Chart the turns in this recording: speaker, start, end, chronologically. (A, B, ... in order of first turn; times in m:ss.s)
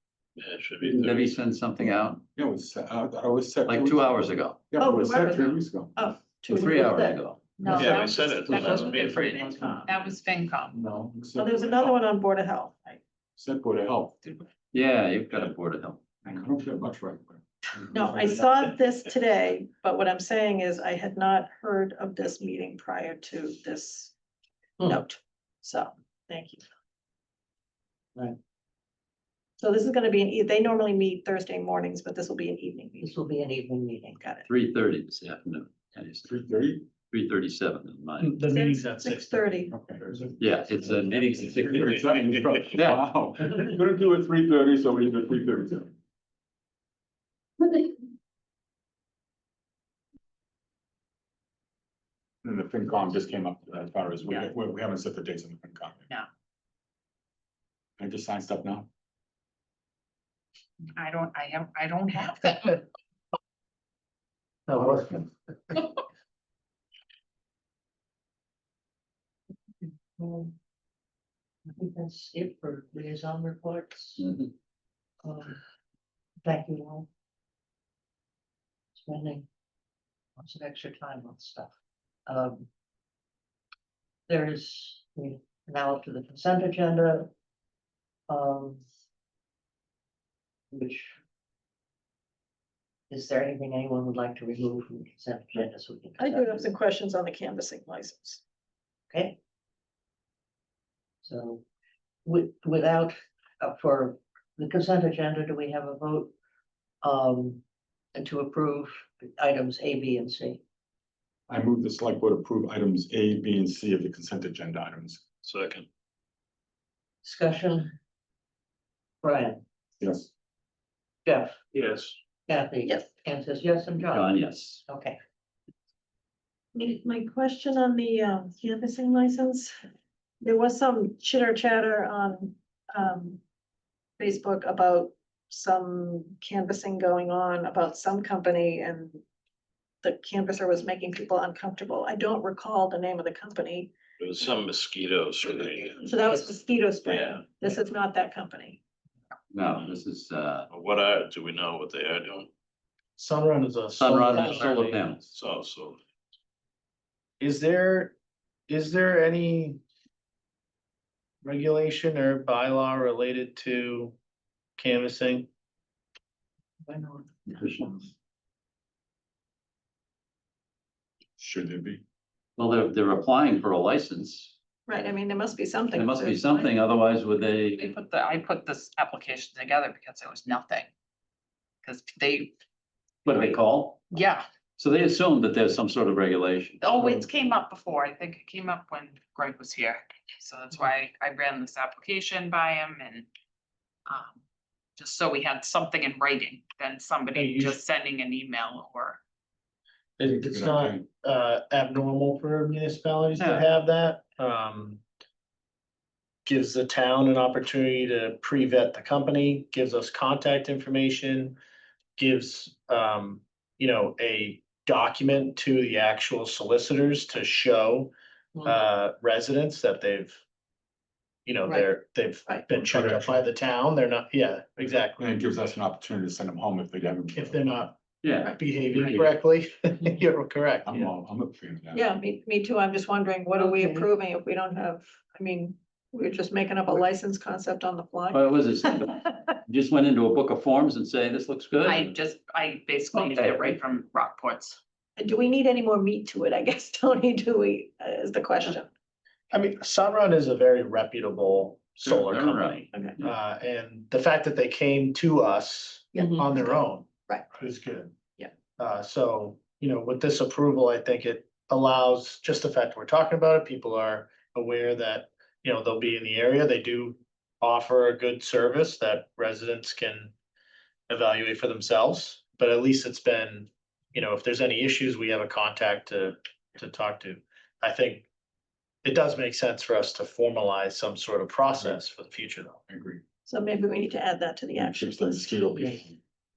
0:00.4-0:01.3 A
0:00.9-0:01.2 B
0:00.9-0:02.2 C
0:02.4-0:06.1 B
0:03.6-0:04.6 C
0:04.8-0:07.8 D
0:06.5-0:07.4 C
0:07.6-0:10.8 E
0:07.7-0:08.7 B
0:07.8-0:09.3 A
0:09.1-0:09.7 D
0:09.2-0:10.1 B
0:10.7-0:11.9 B
0:11.4-0:13.0 D
0:13.4-0:14.4 B
0:14.7-0:16.0 C
0:16.2-0:18.6 B
0:17.9-0:24.1 D
0:24.8-0:26.6 D
0:29.6-0:33.1 D
0:33.0-0:34.2 F
0:34.2-0:34.4 D
0:34.4-0:36.3 C
0:36.2-0:36.8 B
0:37.1-0:38.3 C
0:38.2-0:39.4 G
0:38.5-0:39.7 D
0:39.7-0:40.0 B
0:40.0-0:40.3 G
0:40.4-0:43.0 C
0:41.6-0:45.9 B
0:52.4-0:56.0 B
0:58.0-0:58.9 B
1:00.9-1:02.8 E
1:04.7-1:05.3 G
1:10.2-1:10.5 F
1:11.7-1:14.2 F
1:14.2-1:14.5 C
1:15.2-1:15.6 F
1:16.4-1:17.1 F
1:18.9-1:19.4 F
1:20.4-1:21.7 F
1:22.3-1:22.7 F
1:24.3-1:27.3 F
1:28.3-1:28.8 F
1:30.7-1:31.1 F
1:33.1-1:36.7 F
1:36.2-1:38.4 D
1:39.1-1:39.4 F
1:41.2-1:41.6 F
1:42.2-1:46.3 F
1:47.0-1:47.6 F
1:48.1-1:50.6 F
1:51.5-1:55.2 B
1:55.4-1:55.8 A
1:57.2-1:57.9 F
1:59.2-1:59.6 F
2:00.0-2:00.3 B
2:01.2-2:01.5 F
2:01.7-2:02.2 A
2:02.5-2:04.3 F
2:04.1-2:04.8 C
2:04.9-2:05.2 F
2:06.7-2:09.7 D
2:10.4-2:13.4 D
2:14.2-2:19.2 D
2:20.0-2:23.9 D
2:24.2-2:26.1 A
2:26.0-2:28.8 D
2:27.0-2:27.4 A
2:29.5-2:30.7 C
2:30.7-2:32.5 A
2:33.2-2:35.0 G
2:34.0-2:35.3 C
2:35.3-2:36.0 A
2:37.4-2:38.2 G
2:38.7-2:39.8 G
2:41.4-2:44.1 G
2:44.8-2:45.5 G
2:46.9-2:47.5 F
2:47.5-2:48.0 C
2:51.4-2:52.0 B
2:52.6-2:54.5 C
2:54.9-2:56.6 D
2:55.9-2:57.9 C
2:57.7-3:00.9 E
3:01.8-3:02.5 E
3:03.2-3:04.1 C
3:04.1-3:04.5 E
3:04.8-3:06.9 C
3:06.8-3:13.3 E
3:14.1-3:14.3 E
3:15.0-3:19.2 E
3:17.3-3:17.8 G
3:20.2-3:25.0 G
3:20.2-3:21.0 B
3:23.4-3:23.7 C
3:26.4-3:31.6 G
3:32.2-3:38.1 G
3:38.6-3:40.4 G
3:41.4-3:45.2 G
3:42.7-3:43.4 B
3:45.2-3:47.7 B
3:47.3-3:51.0 G
3:48.2-3:48.6 C
3:48.9-3:49.3 B
3:50.8-3:52.1 B
3:51.9-3:59.2 D
3:53.5-3:54.1 F
3:58.3-4:02.1 C
4:01.8-4:04.8 E
4:03.1-4:03.7 C
4:05.2-4:08.9 D
4:09.5-4:18.1 G
4:12.0-4:13.3 C
4:16.1-4:17.5 D
4:18.8-4:30.3 G
4:31.1-4:38.3 G
4:39.0-4:42.8 G
4:42.9-4:43.2 B
4:43.4-4:46.0 D
4:44.7-4:46.2 B